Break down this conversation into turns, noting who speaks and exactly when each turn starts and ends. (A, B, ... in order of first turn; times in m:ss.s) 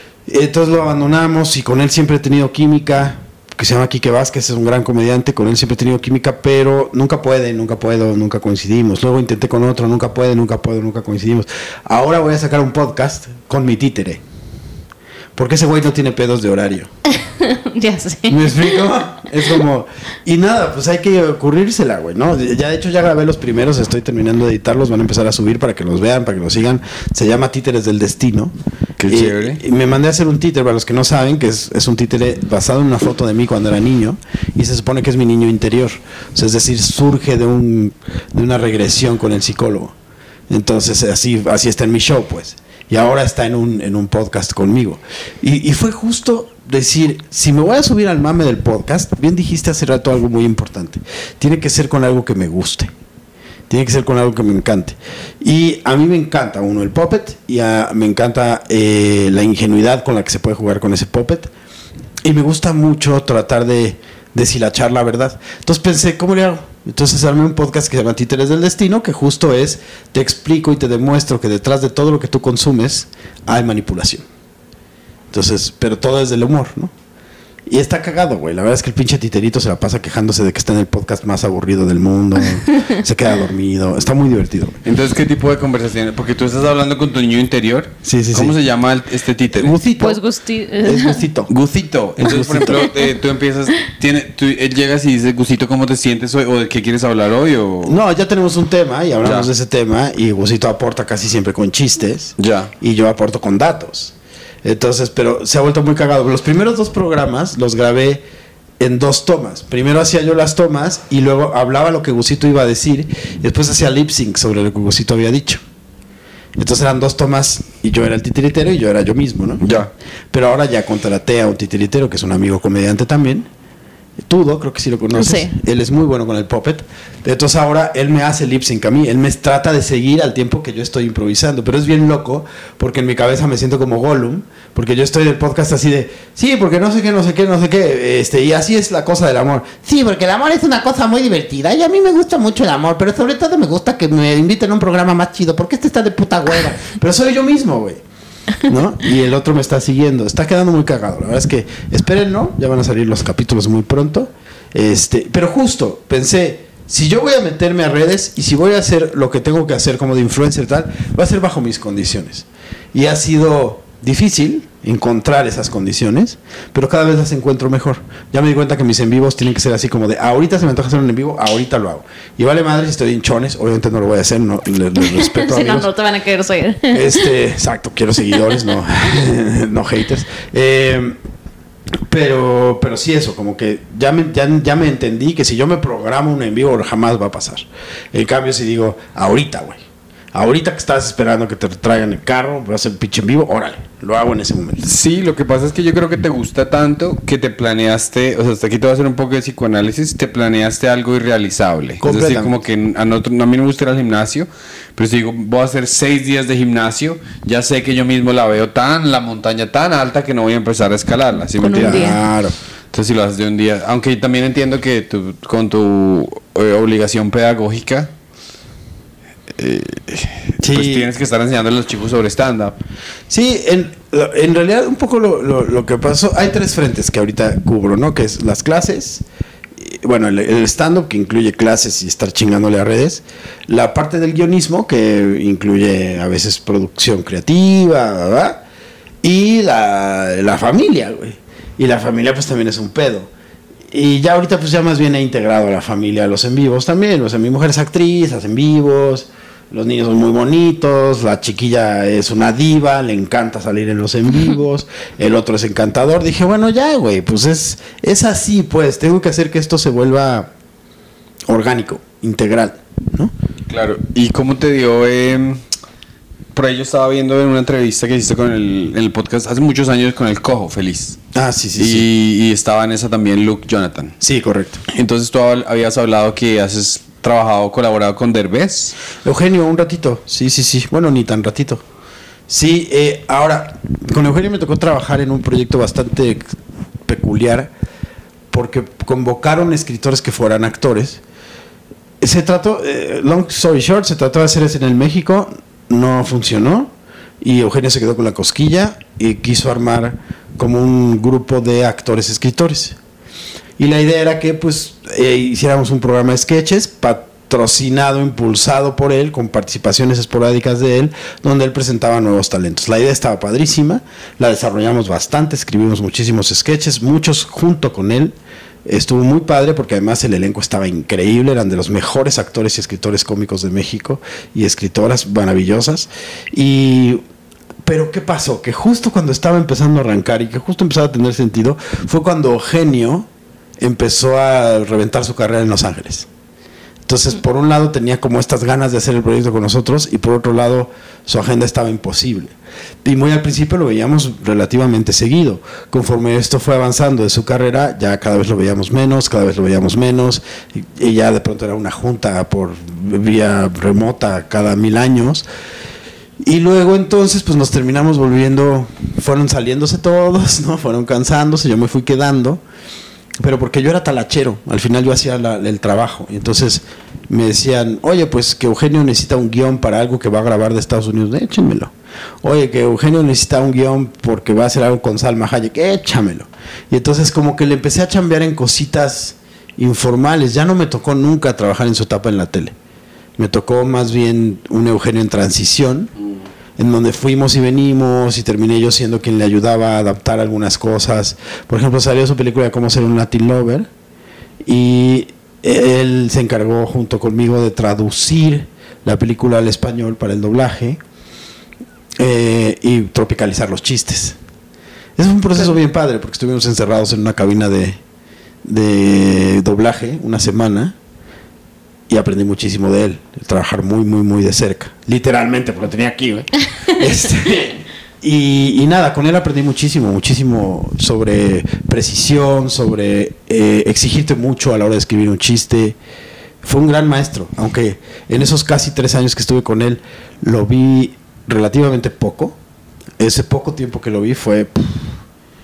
0:00.3-0:14.2 A
0:15.4-0:16.9 A
0:17.2-0:18.8 B
0:18.3-0:28.5 A
0:29.0-0:29.6 C
0:29.1-0:39.9 A
0:40.5-0:52.9 A
0:53.7-1:01.5 A
1:02.2-1:14.2 A
1:15.3-1:16.9 A
1:17.7-1:24.8 A
1:24.8-1:29.8 C
1:28.0-1:28.5 A
1:29.5-1:30.2 A
1:30.0-1:31.2 B
1:30.8-1:31.5 A
1:31.5-1:38.0 C
1:32.2-1:32.9 A
1:37.8-1:48.2 A
1:42.4-1:42.7 C
1:48.8-1:55.6 A
1:56.6-2:03.5 A
1:59.6-1:59.9 C
2:04.2-2:28.0 A
2:05.1-2:05.5 B
2:28.6-2:55.9 A
2:55.0-2:57.3 B
2:56.9-3:01.2 A
3:02.0-3:14.8 A
3:14.8-3:32.2 C
3:22.0-3:22.5 A
3:31.6-3:32.2 B
3:31.7-3:32.5 A
3:32.9-3:38.1 C
3:39.6-3:42.8 C
3:40.6-3:41.1 A
3:43.3-3:49.2 A
3:49.8-3:58.6 A
3:59.2-4:03.3 A
4:03.9-4:20.5 A
4:21.5-4:23.3 A
4:23.7-4:25.6 C
4:26.5-4:31.2 C
4:31.3-4:32.1 A
4:31.8-4:34.2 C
4:34.2-4:34.8 A
4:34.9-4:38.9 C
4:39.2-4:41.8 A
4:42.5-4:47.7 A
4:48.5-4:51.2 A
4:52.2-5:03.0 A
5:03.8-5:27.2 A
5:27.8-5:33.3 A
5:33.8-5:36.3 A
5:37.0-5:55.4 A
5:56.4-6:02.6 A
6:03.4-6:11.9 A
6:12.4-6:22.7 A
6:23.4-6:26.1 A
6:26.8-6:33.9 A
6:34.6-6:41.0 A
6:42.2-6:44.4 A
6:45.2-6:48.0 A
6:48.6-6:50.9 A
6:52.1-7:06.0 A
7:06.6-7:12.6 A
7:13.2-7:15.2 A